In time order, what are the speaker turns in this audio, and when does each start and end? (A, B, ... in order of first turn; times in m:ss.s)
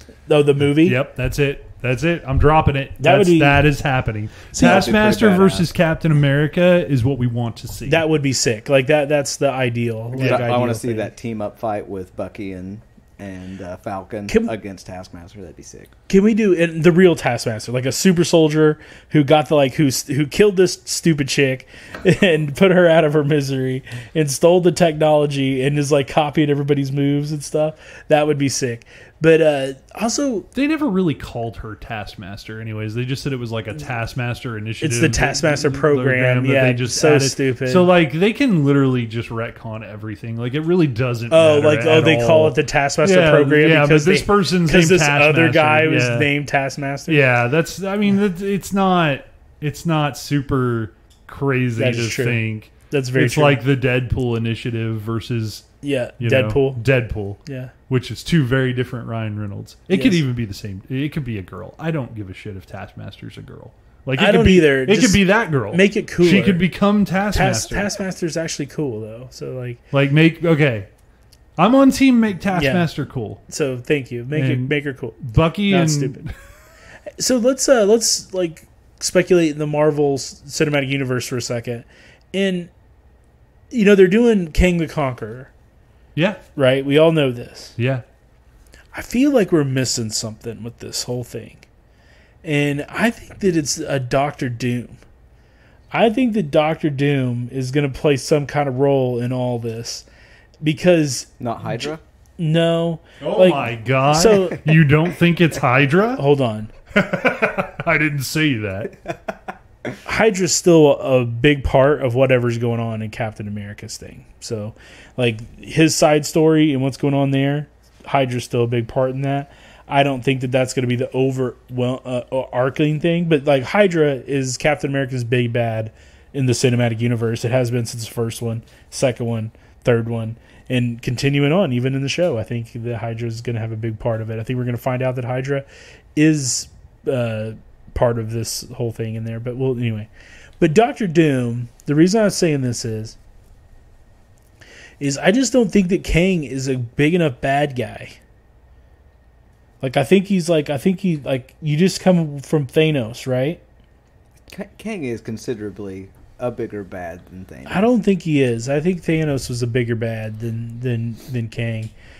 0:00.3-0:01.0 A
0:00.6-0:08.0 B
0:03.0-0:03.7 A
0:04.6-0:05.7 C
0:07.8-0:11.1 A
0:10.1-0:15.9 C
0:14.3-0:14.5 A
0:16.1-0:30.5 A
0:30.5-0:46.3 B
0:34.8-0:37.9 A
0:41.3-0:47.3 A
0:47.1-0:55.7 B
0:51.8-0:53.6 A
0:55.8-0:56.8 A
0:56.2-1:07.9 B
0:57.4-0:57.7 A
0:59.9-1:00.2 A
1:04.2-1:06.6 A
1:07.3-1:09.8 A
1:09.9-1:10.9 B
1:11.6-1:13.4 B
1:12.5-1:12.9 A
1:13.5-1:16.2 A
1:14.3-1:16.3 B
1:17.2-1:22.7 A
1:23.7-1:25.5 A
1:26.2-1:26.4 B
1:26.6-1:27.7 A
1:27.8-1:28.0 B
1:28.9-1:31.6 A
1:32.4-1:35.0 A
1:35.9-1:40.0 A
1:40.6-1:44.7 A
1:41.4-1:42.0 C
1:43.2-1:46.2 B
1:46.2-1:46.7 A
1:46.9-1:48.9 B
1:50.0-2:20.1 A
2:20.6-2:23.2 A
2:25.0-2:28.2 A
2:29.8-2:33.6 A
2:34.5-2:37.9 C
2:37.7-2:41.9 A